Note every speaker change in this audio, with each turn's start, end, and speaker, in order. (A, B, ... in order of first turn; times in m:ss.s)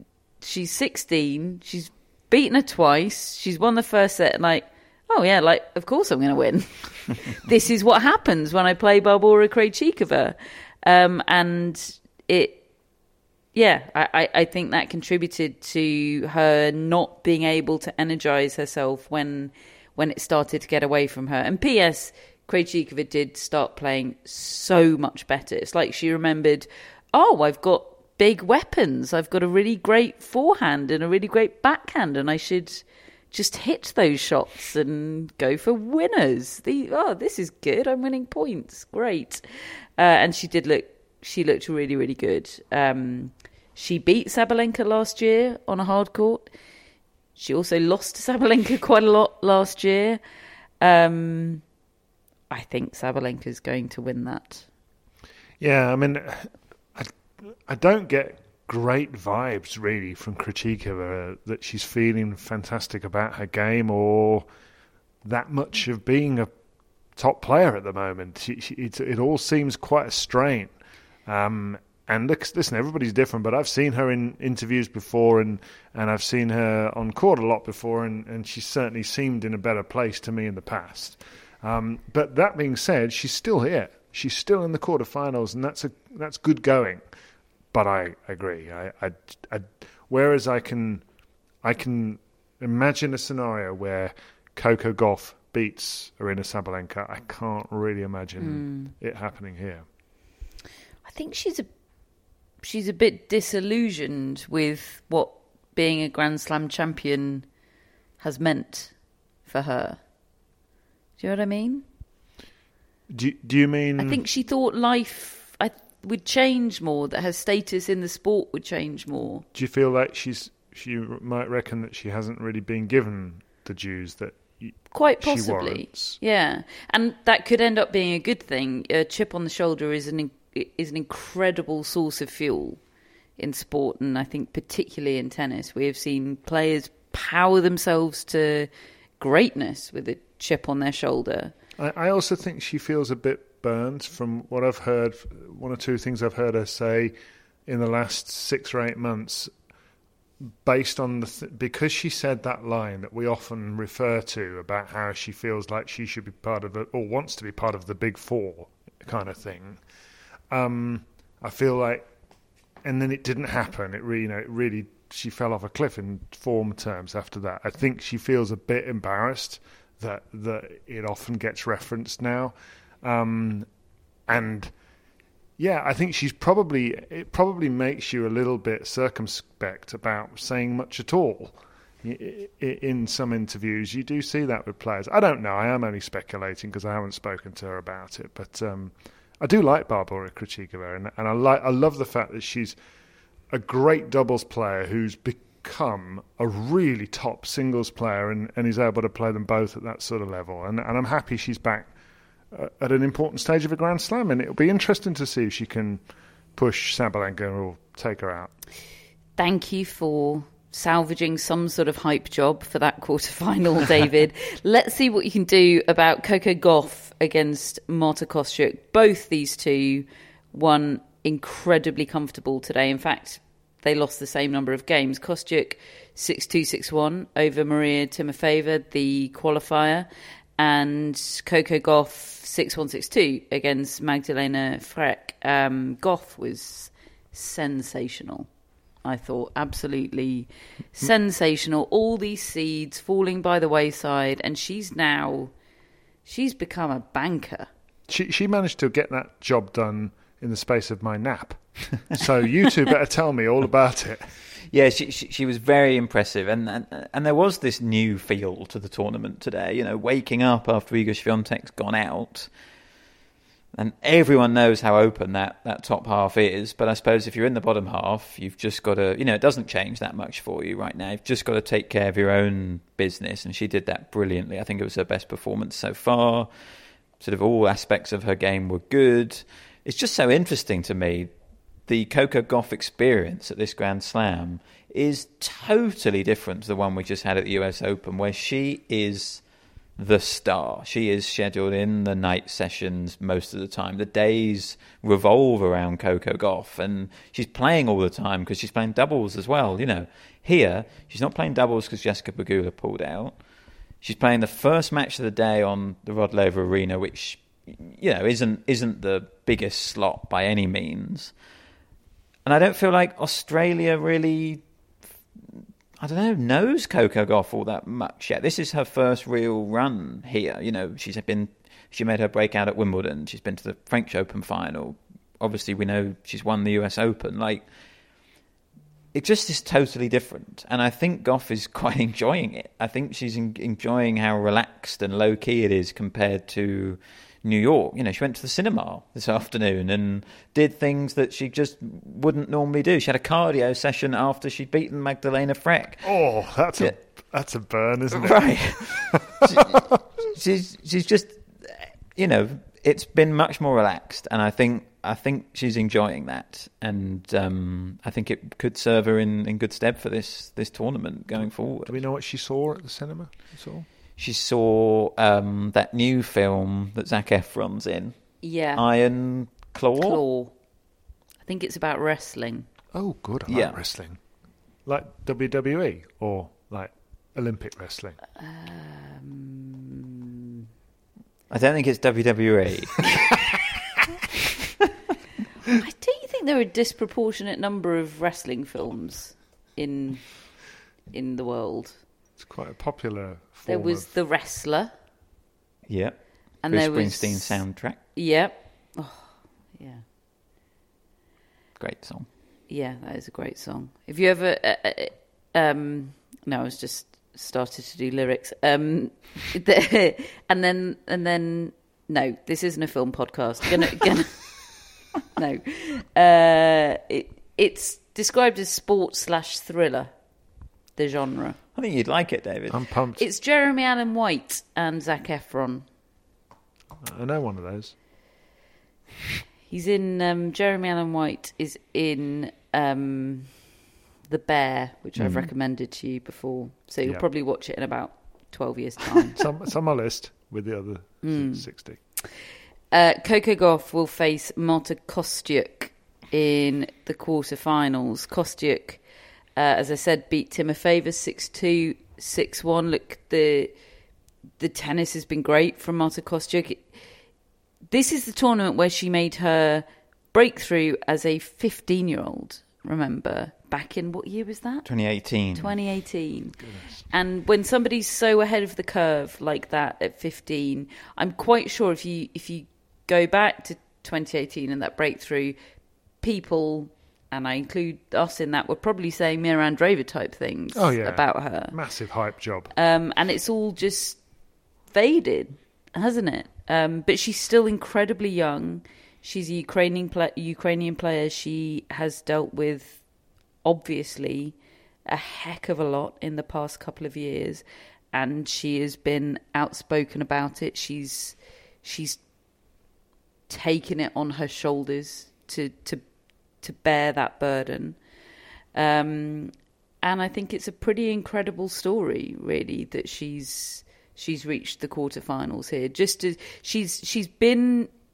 0:00.4-0:12.6 A
0:13.5-0:39.4 A
0:40.0-0:46.5 A
0:47.4-0:50.2 A
0:50.8-0:51.6 A
0:52.5-0:54.6 A
0:55.6-0:57.1 B
0:57.6-1:04.4 B
1:05.2-1:06.5 B
1:07.2-1:10.7 B
1:11.2-1:27.0 B
1:27.7-1:31.0 B
1:31.6-1:39.8 B
1:38.4-1:38.9 A
1:41.0-1:41.7 A
1:42.6-1:47.4 A
1:48.2-1:48.9 A
1:49.5-1:50.0 A
1:51.2-1:51.8 A
1:53.1-1:54.2 B
1:54.0-1:59.4 A
1:59.5-2:06.2 B
2:04.9-2:12.8 A
2:13.4-2:18.7 A
2:19.2-2:21.5 A
2:21.8-2:27.1 B
2:27.6-2:29.5 B
2:30.6-2:39.8 B
2:40.5-2:42.0 B
2:42.8-2:53.7 B
2:54.3-2:54.7 B
2:55.6-3:12.8 B
3:13.5-3:21.9 B
3:22.5-3:26.0 B
3:26.6-3:28.5 B
3:29.4-3:58.5 A
3:59.0-4:05.5 A
4:06.2-4:07.7 A
4:08.1-4:14.2 B
4:14.7-4:22.5 C
4:23.7-4:36.5 C
4:37.2-4:41.3 C
4:41.9-4:49.4 C
4:50.0-5:03.4 C
5:04.0-5:11.3 C
5:12.4-5:14.6 C
5:16.0-5:27.6 C
5:29.1-5:46.1 C
5:46.0-5:49.8 B
5:48.1-6:02.0 C
6:01.9-6:03.8 B
6:04.2-6:10.2 C
6:08.4-6:08.8 A
6:10.0-6:10.5 A
6:11.4-6:12.7 A
6:12.9-6:14.2 B
6:13.5-6:13.8 C
6:14.8-6:18.2 B
6:18.4-6:20.2 A
6:21.5-6:23.1 C
6:25.7-6:30.6 A
6:31.1-6:32.0 A
6:32.4-6:34.1 B
6:33.7-6:34.9 A
6:35.9-6:38.0 C
6:36.6-6:37.6 A
6:38.1-6:40.0 A
6:41.8-6:42.3 C
6:42.7-6:54.5 A
6:55.4-7:00.1 A
7:01.0-7:01.6 A
7:01.7-7:02.8 C
7:02.7-7:03.2 B
7:03.2-7:05.8 A
7:07.0-7:07.9 B
7:09.7-7:13.6 A
7:14.3-7:19.4 A
7:15.2-7:15.4 C
7:19.4-7:22.0 B
7:21.2-7:21.6 A
7:22.9-7:29.0 A
7:29.6-7:33.7 A
7:34.6-7:36.9 A
7:37.9-7:44.8 A
7:44.8-7:45.7 C
7:45.5-7:55.6 A
7:46.6-7:47.0 B
7:56.2-8:01.7 A
8:00.7-8:02.7 B
8:02.7-8:04.2 A
8:04.9-8:13.0 A
8:13.6-8:14.5 A
8:15.0-8:22.2 A
8:23.5-8:26.0 A
8:26.6-8:28.0 A
8:28.7-8:37.9 A